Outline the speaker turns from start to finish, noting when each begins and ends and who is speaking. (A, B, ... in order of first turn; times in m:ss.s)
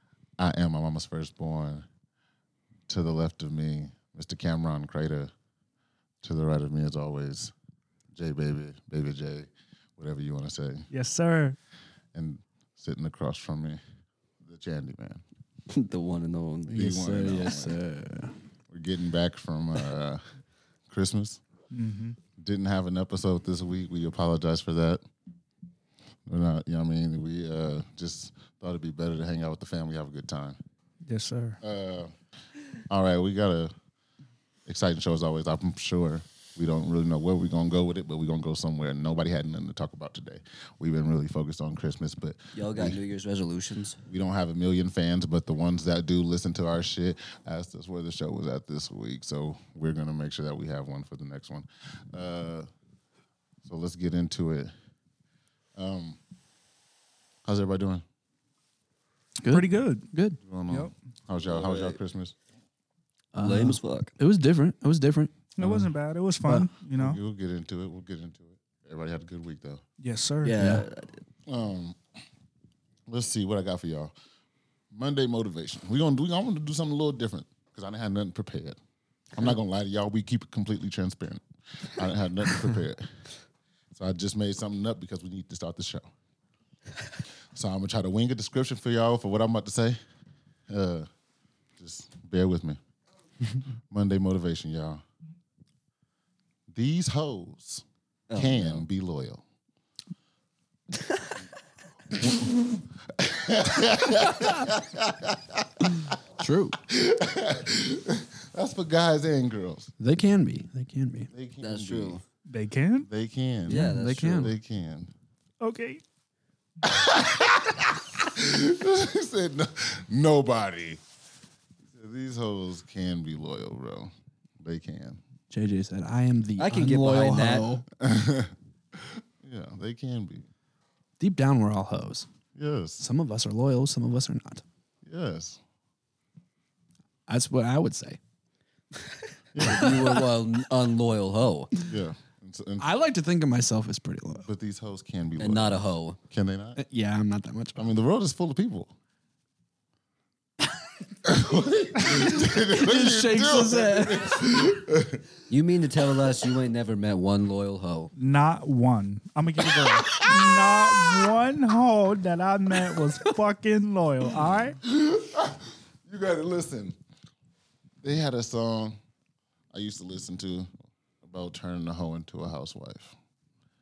0:00.4-0:01.9 A
0:02.9-0:05.3 A
0:06.2-0:07.5 A
0:08.2-0:10.9 A
0:10.9-0:11.6 B
0:12.1-0:13.8 A
0:14.4-0:15.2 A
0:15.7-0:17.6 C
0:16.7-0:17.8 A
0:16.7-0:18.4 D
0:18.7-0:20.2 A
0:20.9-0:21.4 A
0:21.7-0:22.2 B
0:22.4-0:25.0 A
0:26.3-0:30.6 A
0:31.1-0:31.6 B
0:31.6-0:32.1 A
0:32.9-0:33.7 A
0:34.7-0:43.0 A
0:42.6-0:44.0 C
0:44.1-0:52.7 A
0:53.6-0:54.7 A
0:55.8-0:56.2 A
0:57.4-0:58.0 A
0:59.4-1:00.4 D
0:59.5-1:00.1 B
1:00.4-1:02.4 A
1:01.4-1:02.0 C
1:03.3-1:05.7 D
1:03.4-1:04.1 C
1:05.6-1:07.2 B
1:07.0-1:09.8 A
1:10.0-1:10.8 B
1:10.4-1:11.2 C
1:11.5-1:12.0 A
1:13.1-1:14.1 A
1:14.9-1:18.8 A
1:19.3-1:23.1 A
1:23.9-1:26.1 A
1:27.5-1:30.0 A
1:30.7-1:31.1 A
1:31.8-1:32.8 A
1:33.9-1:35.0 A
1:36.7-1:37.8 A
1:38.3-1:38.8 C
1:38.4-1:39.4 A
1:42.2-1:42.6 A
1:43.2-1:46.2 A
1:46.4-1:46.8 D
1:46.8-1:49.9 A
1:50.0-1:51.3 D
1:51.3-1:52.2 A
1:51.6-1:52.2 C
1:52.5-1:53.1 B
1:53.1-1:55.1 A
1:53.7-1:54.5 C
1:53.7-1:54.5 D
1:55.6-1:56.0 B
1:56.8-2:01.0 A
2:01.9-2:05.2 A
2:05.5-2:07.8 D
2:06.6-2:07.7 C
2:08.0-2:10.5 A
2:11.2-2:12.3 D
2:12.6-2:13.0 A
2:13.0-2:14.6 D
2:15.0-2:15.6 A
2:17.3-2:18.2 D
2:19.6-2:20.0 A
2:19.6-2:21.7 C
2:19.7-2:20.1 D
2:21.8-2:22.9 A
2:22.8-2:24.5 D
2:24.4-2:26.8 A
2:25.4-2:26.2 C
2:26.8-2:27.8 D
2:27.8-2:28.9 A
2:31.2-2:35.2 A
2:32.6-2:34.4 D
2:35.5-2:38.1 C
2:38.2-2:44.8 B
2:44.8-2:47.0 A
2:48.0-2:49.0 A
2:49.7-2:50.7 A
2:51.2-2:53.2 A